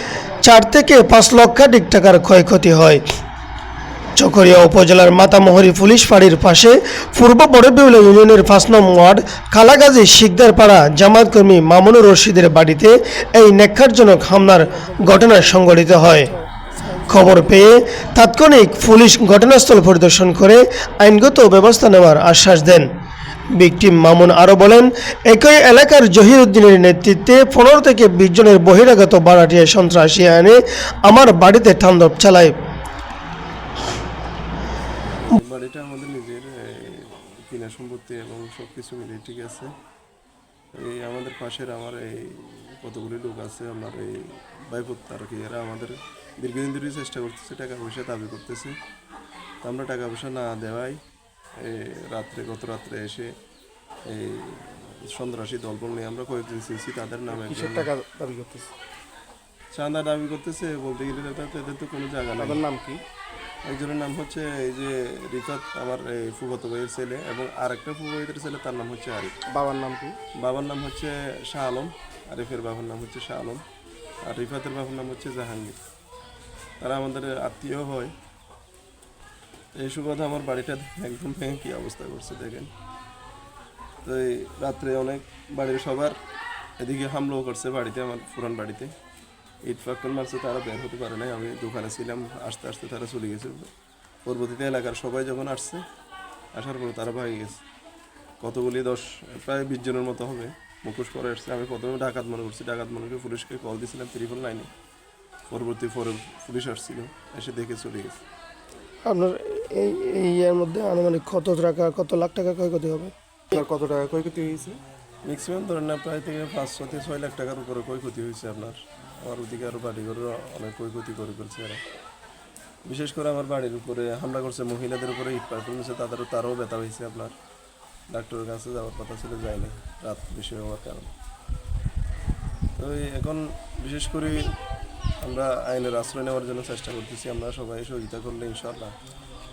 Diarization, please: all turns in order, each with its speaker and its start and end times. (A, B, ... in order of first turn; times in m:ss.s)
0:00.4-0:03.0 A
0:04.2-0:16.3 A
0:17.1-0:22.9 A
0:23.5-0:32.5 A
0:35.2-0:39.7 B
0:40.7-0:48.8 B
0:49.6-0:51.0 B
0:51.6-0:53.3 B
0:54.1-0:57.9 B
0:57.3-0:58.7 C
0:59.7-1:02.6 B
1:02.4-1:03.0 C
1:03.6-1:09.3 B
1:09.5-1:10.2 C
1:10.4-1:13.6 B
1:14.2-1:15.8 B
1:16.8-1:18.1 B
1:19.8-1:22.7 B
1:24.0-1:26.2 B
1:26.8-1:28.9 B
1:29.6-1:33.7 B
1:34.2-1:35.8 B
1:36.5-1:37.6 B
1:38.4-1:44.7 B
1:45.5-1:48.2 B
1:49.0-1:53.1 A
1:53.5-1:54.8 C
1:55.2-2:01.8 B
2:02.8-2:07.3 B
2:08.1-2:11.1 B
2:12.8-2:14.6 B
2:15.2-2:18.9 B